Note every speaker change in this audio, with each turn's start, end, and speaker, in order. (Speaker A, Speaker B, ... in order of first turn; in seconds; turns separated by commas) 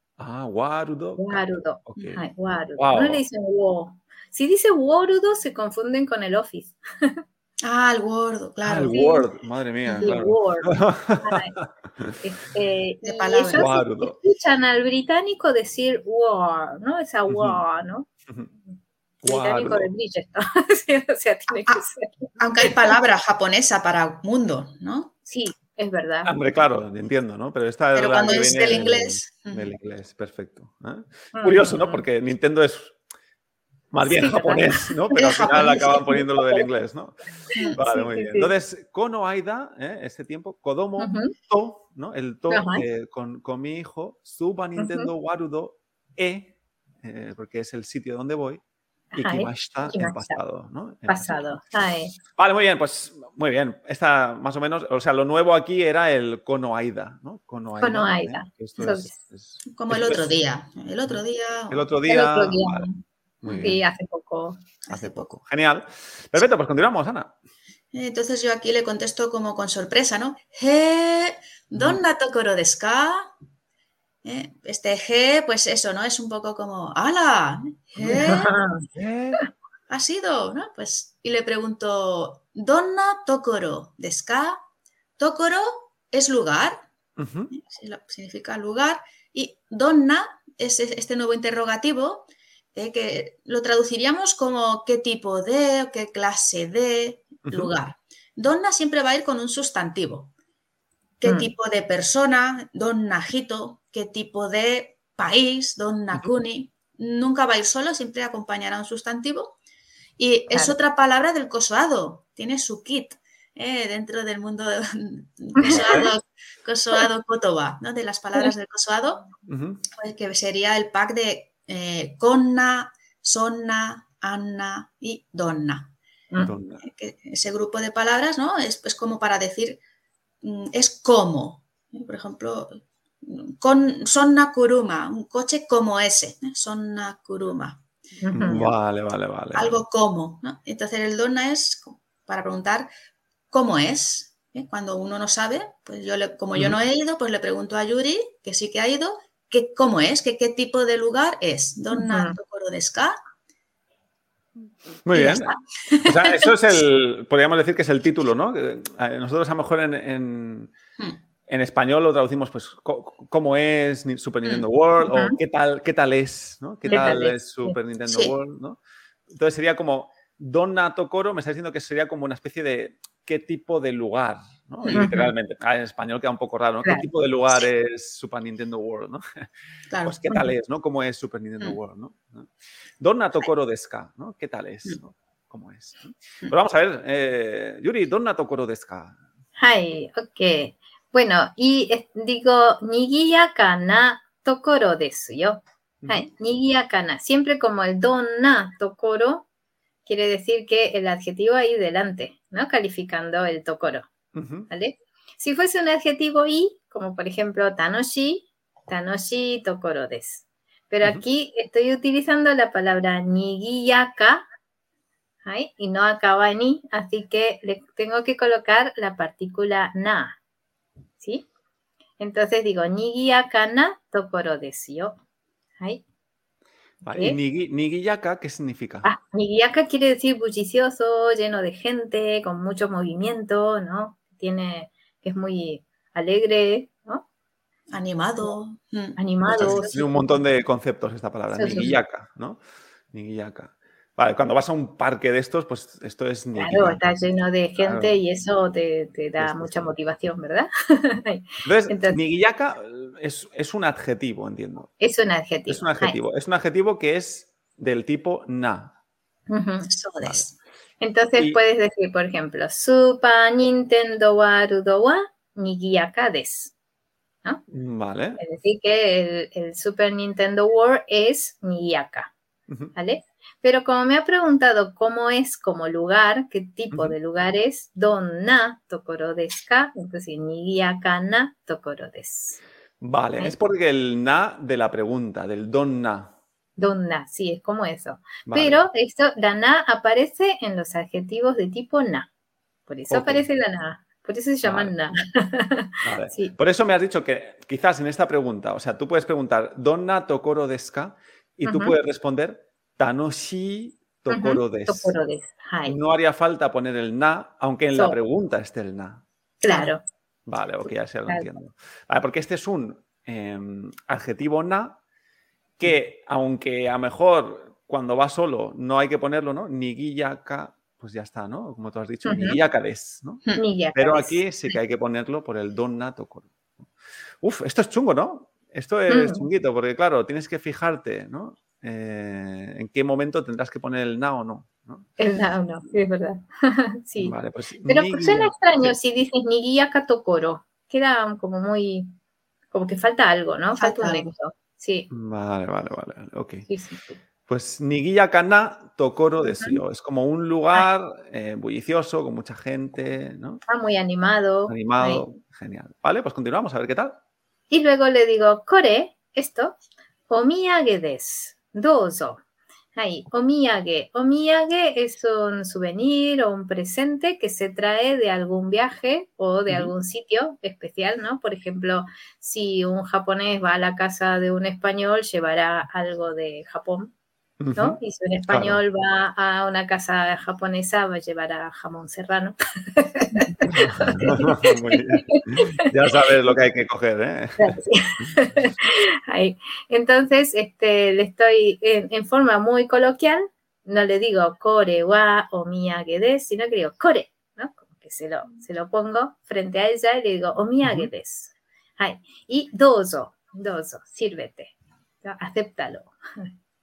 Speaker A: 0.2-2.2, Speaker B: 1.2-7.2, Speaker A: 2.8-3.2, Speaker C: 7.6-9.0, Speaker A: 8.6-12.2, Speaker B: 8.9-9.2, Speaker C: 9.9-10.2, Speaker B: 10.0-11.6, Speaker B: 12.2-18.1, Speaker C: 13.0-13.7, Speaker A: 13.5-14.2, Speaker A: 17.3-17.6, Speaker A: 19.2-19.9, Speaker B: 19.2-22.9, Speaker C: 22.4-25.1, Speaker B: 25.3-26.3, Speaker A: 26.2-33.0, Speaker C: 27.9-29.7, Speaker B: 31.3-32.0, Speaker A: 33.9-37.2, Speaker B: 34.0-35.0, Speaker C: 35.1-36.1, Speaker B: 35.5-36.7, Speaker B: 37.5-38.5, Speaker C: 37.5-37.8, Speaker A: 37.7-48.6, Speaker B: 41.0-41.3, Speaker B: 42.5-42.8, Speaker B: 44.8-45.1, Speaker B: 49.1-50.4, Speaker A: 49.2-51.6, Speaker B: 51.1-52.1, Speaker A: 52.3-60.2, Speaker B: 57.8-59.2, Speaker C: 59.6-61.9, Speaker A: 61.7-62.9, Speaker B: 62.1-64.6, Speaker A: 63.4-63.8, Speaker C: 64.8-65.3, Speaker A: 64.9-67.3, Speaker C: 67.9-73.3, Speaker A: 71.8-72.0, Speaker C: 74.2-78.5, Speaker A: 78.0-79.4, Speaker B: 78.1-78.8, Speaker C: 79.9-84.6, Speaker C: 85.2-86.9, Speaker A: 87.2-87.5, Speaker C: 87.5-100.3, Speaker A: 97.5-97.7, Speaker C: 101.2-109.6, Speaker B: 101.2-101.5, Speaker C: 110.2-119.3, Speaker B: 115.6-116.0, Speaker A: 115.7-116.1, Speaker A: 119.5-119.8, Speaker C: 119.9-125.9, Speaker A: 126.4-126.8, Speaker C: 126.8-129.8, Speaker C: 130.4-137.8, Speaker B: 138.2-138.7, Speaker A: 138.3-139.8, Speaker C: 139.5-142.9, Speaker C: 143.5-153.2, Speaker B: 151.9-152.4, Speaker A: 155.0-160.7, Speaker C: 155.1-156.5, Speaker A: 161.5-179.5, Speaker B: 165.1-165.3, Speaker B: 166.9-167.8, Speaker C: 168.1-168.3, Speaker C: 174.8-175.1, Speaker B: 174.9-175.3, Speaker C: 179.9-180.2, Speaker A: 180.0-189.2, Speaker B: 189.6-199.4, Speaker A: 196.0-196.3, Speaker B: 200.0-204.1, Speaker A: 204.3-204.7, Speaker B: 204.7-214.4, Speaker B: 215.4-220.4, Speaker B: 221.2-221.5, Speaker B: 222.2-225.2, Speaker B: 225.8-226.0, Speaker A: 227.0-229.1, Speaker B: 227.1-227.4, Speaker B: 229.0-237.2, Speaker C: 237.9-240.1, Speaker B: 239.2-240.1, Speaker A: 239.5-242.6, Speaker B: 241.5-242.0, Speaker C: 241.7-241.9, Speaker A: 243.1-247.0, Speaker B: 246.6-252.2, Speaker A: 247.8-248.2, Speaker A: 249.4-249.9, Speaker A: 251.6-254.9, Speaker B: 255.0-256.2, Speaker A: 255.7-258.9, Speaker B: 259.5-259.9, Speaker C: 259.9-260.6, Speaker B: 261.0-266.7, Speaker A: 267.7-268.4, Speaker B: 268.4-272.3, Speaker A: 272.7-272.9, Speaker B: 272.9-282.6, Speaker A: 283.0-286.3, Speaker B: 286.8-292.3, Speaker A: 288.5-288.8, Speaker B: 292.9-296.6, Speaker A: 293.1-293.4, Speaker A: 294.6-294.9, Speaker A: 296.0-305.1, Speaker B: 301.6-301.9, Speaker B: 304.3-306.0, Speaker A: 305.8-309.2, Speaker B: 309.6-310.0, Speaker A: 310.5-315.0, Speaker A: 315.8-323.4, Speaker B: 322.2-322.6, Speaker B: 323.6-324.4, Speaker A: 323.9-326.8, Speaker A: 327.4-335.1, Speaker B: 329.1-329.5, Speaker B: 335.2-342.1, Speaker A: 337.2-338.9, Speaker B: 342.7-345.1, Speaker C: 343.8-344.3, Speaker A: 345.1-346.7, Speaker B: 346.7-347.2, Speaker A: 347.5-353.6, Speaker B: 349.5-349.8, Speaker B: 353.7-355.2, Speaker A: 354.7-357.2, Speaker B: 357.7-359.8, Speaker B: 360.3-362.4, Speaker B: 362.9-377.1, Speaker A: 377.6-378.8, Speaker B: 377.8-385.9, Speaker A: 383.6-387.8, Speaker B: 387.6-406.5, Speaker A: 400.8-401.1